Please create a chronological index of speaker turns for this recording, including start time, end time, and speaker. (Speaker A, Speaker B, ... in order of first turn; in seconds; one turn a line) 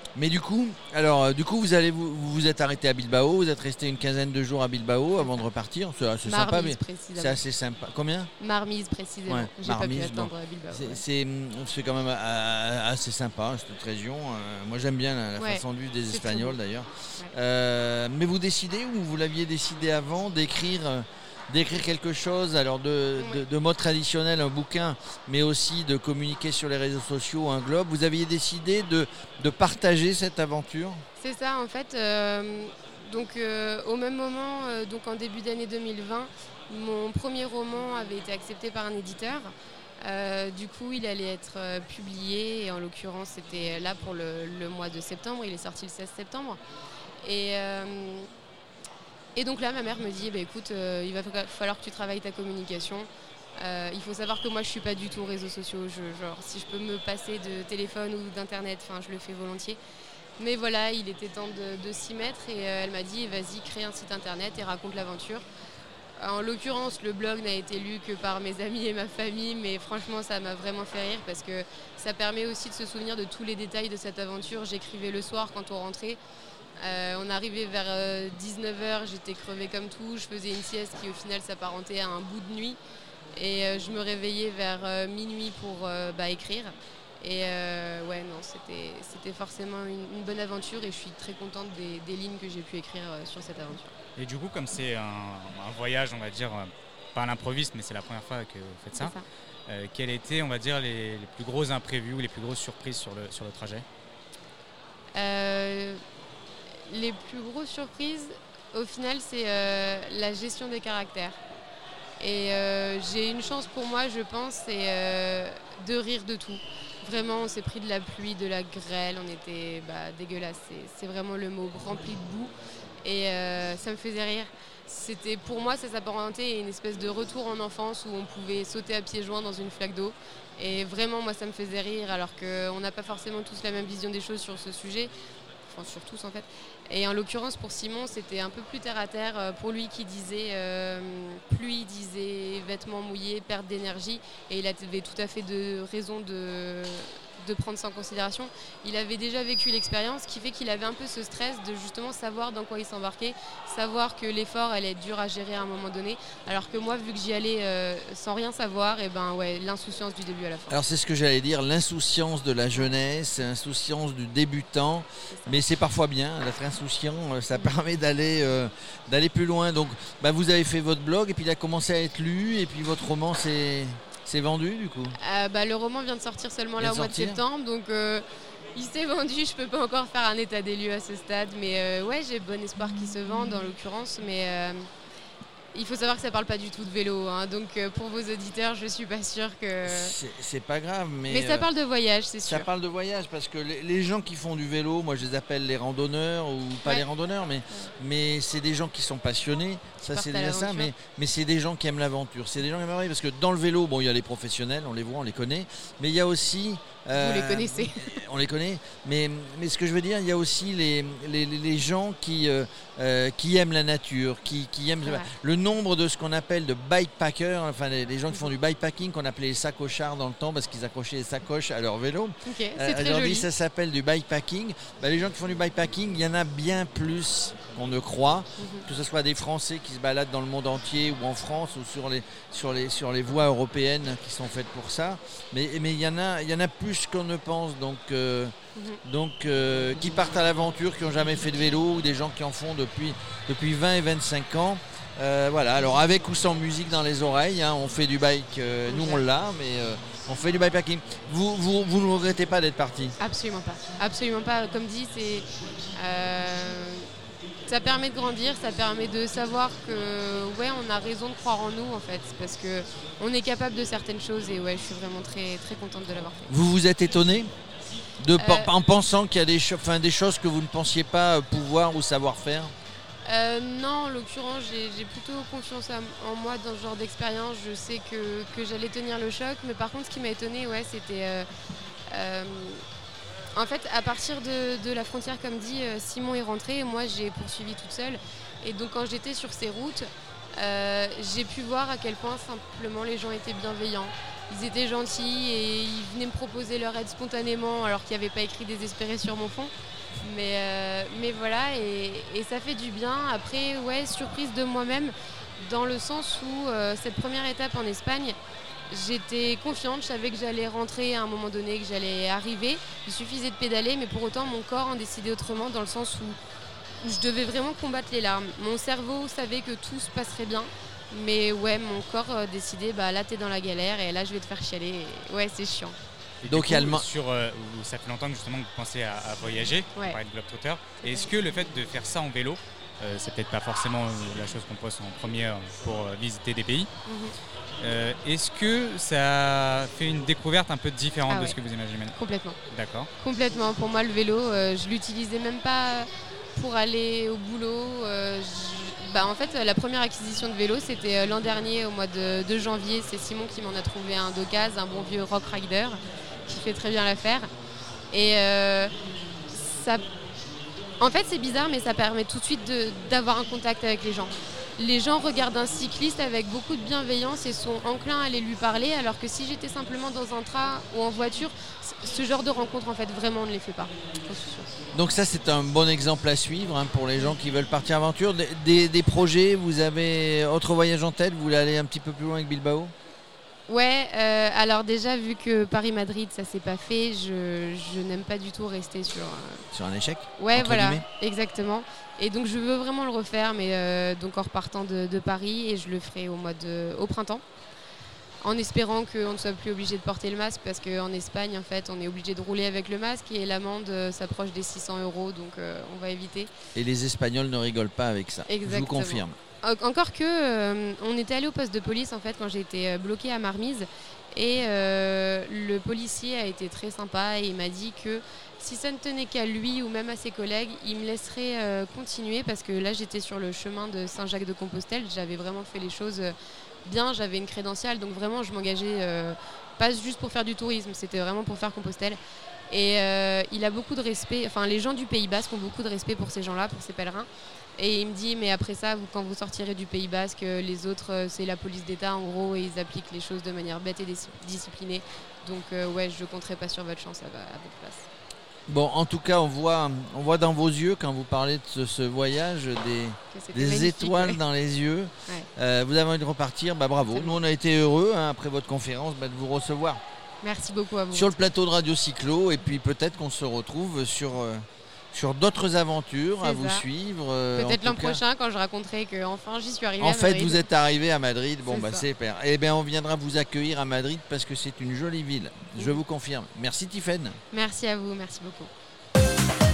Speaker A: 0.1-8.3
Speaker B: 6.2-7.4
Speaker B: 8.4-11.0
Speaker A: 9.3-31.0
Speaker B: 15.4-16.6
Speaker B: 31.2-46.6
Speaker B: 47.2-48.3
Speaker B: 49.4-59.8
Speaker B: 60.4-65.4
Speaker B: 66.2-76.2
Speaker B: 76.8-82.8
Speaker B: 83.3-93.9
Speaker C: 94.2-99.2
Speaker B: 98.9-99.2
Speaker C: 99.7-103.8
Speaker B: 105.1-106.0
Speaker B: 106.9-111.4
Speaker B: 112.2-122.5
Speaker B: 123.0-135.1
Speaker B: 135.7-160.8
Speaker A: 160.7-175.2
Speaker B: 165.3-165.6
Speaker B: 175.1-184.9
Speaker A: 176.8-177.4
Speaker B: 185.7-190.1
Speaker A: 189.8-191.7
Speaker B: 191.3-192.7
Speaker A: 192.4-238.5
Speaker B: 200.0-200.9
Speaker B: 207.1-208.2
Speaker B: 215.0-215.3
Speaker B: 222.4-223.5
Speaker B: 228.6-228.9
Speaker B: 238.7-239.0
Speaker A: 239.0-253.1
Speaker B: 248.9-249.2
Speaker B: 253.2-257.1
Speaker B: 257.7-266.5
Speaker A: 266.5-267.5
Speaker A: 268.2-272.7
Speaker B: 268.4-268.7
Speaker B: 273.2-281.5
Speaker B: 282.1-282.8
Speaker B: 283.5-308.4
Speaker B: 308.9-316.4
Speaker B: 317.0-326.0
Speaker C: 326.4-336.9
Speaker A: 326.5-327.1
Speaker B: 331.0-331.3
Speaker B: 337.1-337.3
Speaker C: 337.8-342.1
Speaker B: 341.3-341.6
Speaker B: 342.1-342.6
Speaker C: 342.7-343.1
Speaker B: 343.2-357.5
Speaker B: 358.1-358.9
Speaker B: 359.5-360.0
Speaker B: 361.0-374.7
Speaker A: 374.9-382.9
Speaker B: 383.7-389.6
Speaker A: 389.7-391.1
Speaker B: 390.4-397.4
Speaker B: 398.4-406.5
Speaker A: 406.7-409.4
Speaker B: 408.5-426.3
Speaker B: 426.8-432.2
Speaker B: 432.7-448.1
Speaker A: 448.7-460.0
Speaker B: 453.3-454.4
Speaker B: 457.1-457.4
Speaker B: 460.4-461.5
Speaker A: 461.1-468.2
Speaker B: 466.4-466.9
Speaker B: 467.6-470.6
Speaker A: 470.0-477.4
Speaker B: 471.6-472.1
Speaker B: 477.5-478.7